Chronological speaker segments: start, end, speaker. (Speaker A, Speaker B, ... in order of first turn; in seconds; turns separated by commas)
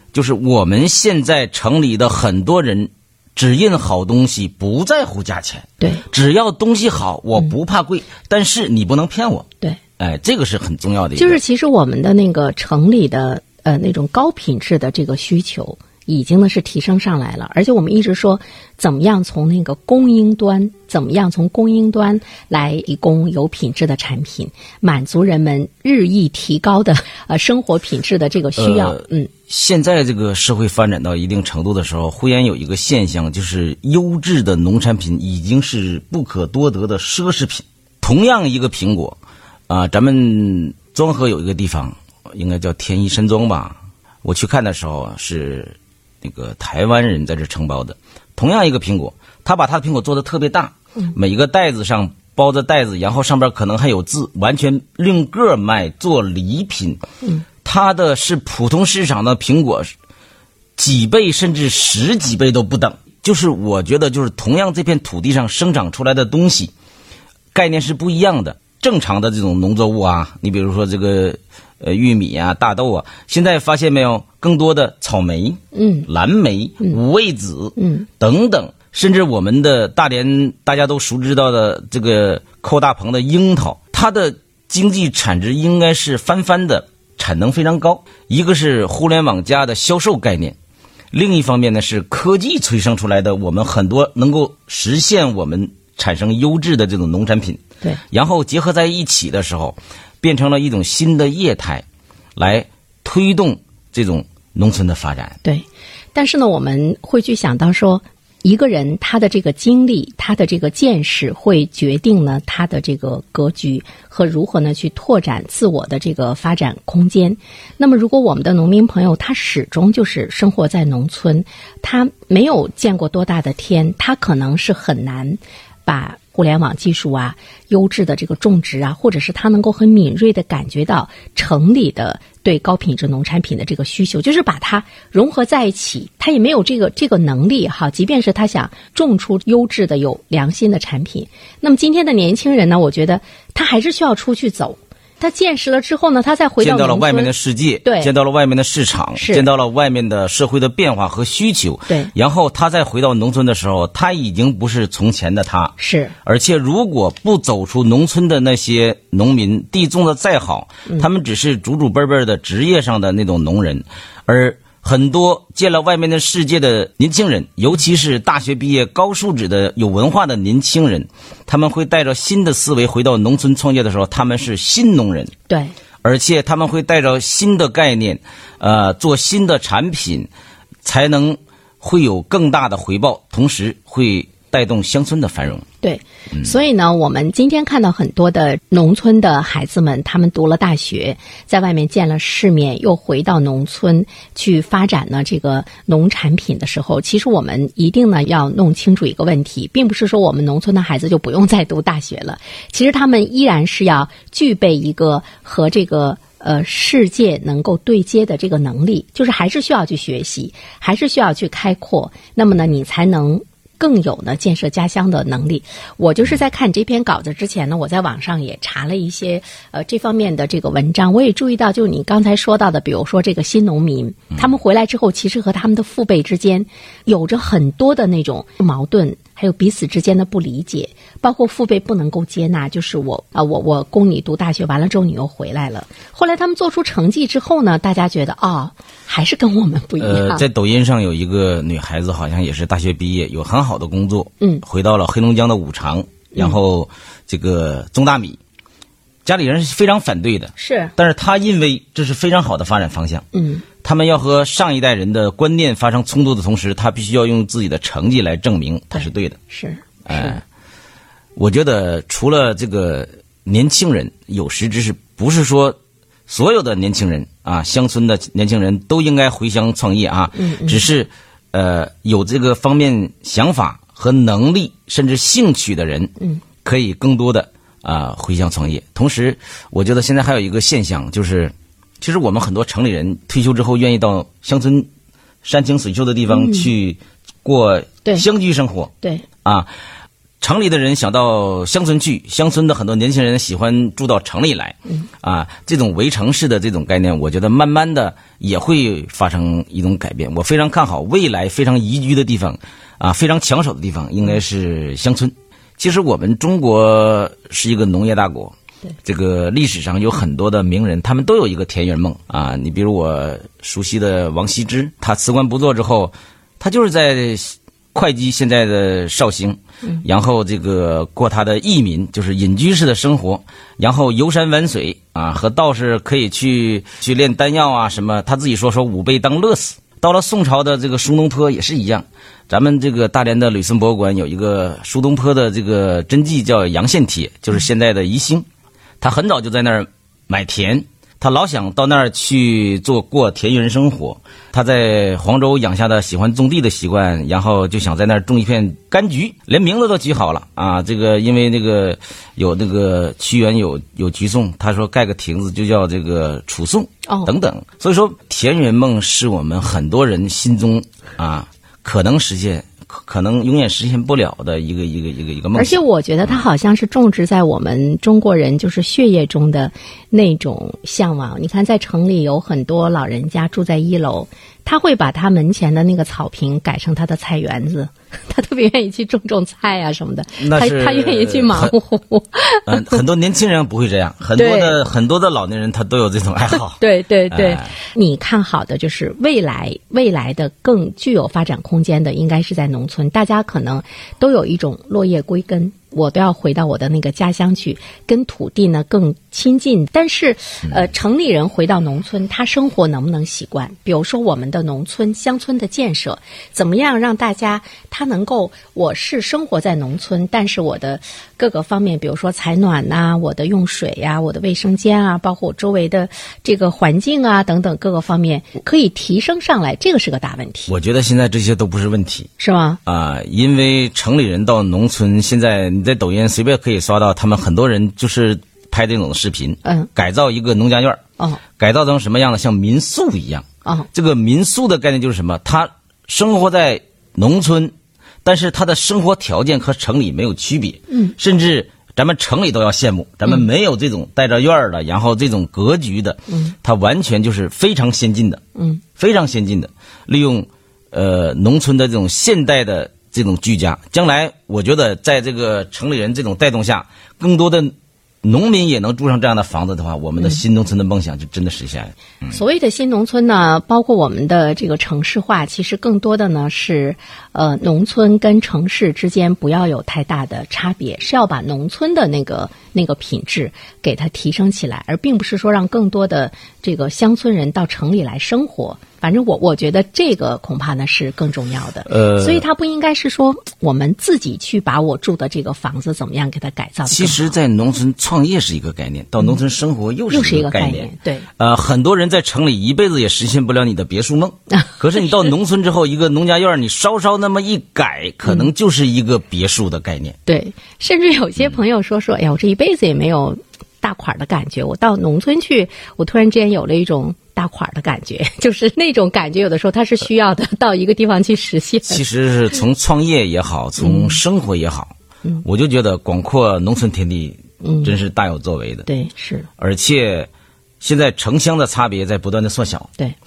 Speaker A: 0.1-9.5, Speaker A: 10.0-11.4, Speaker B: 11.2-29.3, Speaker A: 28.6-57.0, Speaker A: 57.6-59.9, Speaker A: 60.8-66.7, Speaker A: 67.5-90.6, Speaker B: 75.7-76.1, Speaker B: 77.8-78.1, Speaker A: 91.1-101.8, Speaker A: 102.4-105.4, Speaker B: 105.4-147.3, Speaker A: 146.6-175.3, Speaker B: 147.8-148.1, Speaker B: 149.2-149.5, Speaker B: 155.8-156.2, Speaker B: 175.5-175.7, Speaker A: 176.0-180.3, Speaker A: 180.8-185.7, Speaker B: 185.8-240.4, Speaker A: 240.0-248.4, Speaker A: 249.2-253.2, Speaker B: 250.6-250.9, Speaker B: 253.3-253.7, Speaker A: 253.8-259.4, Speaker B: 258.9-260.4, Speaker A: 260.1-260.4, Speaker A: 261.4-265.8, Speaker A: 266.3-276.1, Speaker B: 270.3-270.9, Speaker A: 276.6-284.9, Speaker A: 285.4-288.9, Speaker B: 286.3-286.7, Speaker A: 289.4-289.7, Speaker A: 290.4-338.5, Speaker A: 339.0-366.5, Speaker B: 357.1-357.3, Speaker B: 365.5-383.0, Speaker A: 380.4-381.8, Speaker A: 382.7-387.8, Speaker B: 384.4-384.8, Speaker B: 386.8-420.7, Speaker A: 420.7-422.3, Speaker B: 422.4-422.8, Speaker A: 422.9-431.0, Speaker B: 429.6-429.9, Speaker A: 431.6-437.7, Speaker A: 438.2-448.4, Speaker A: 449.0-462.4, Speaker B: 462.3-487.3, Speaker A: 481.9-482.4, Speaker A: 486.9-500.2, Speaker B: 490.1-491.3, Speaker B: 500.3-512.0, Speaker A: 511.9-518.9, Speaker B: 513.8-514.2, Speaker B: 517.6-518.0, Speaker B: 518.9-519.5, Speaker A: 519.6-520.3, Speaker A: 520.8-522.9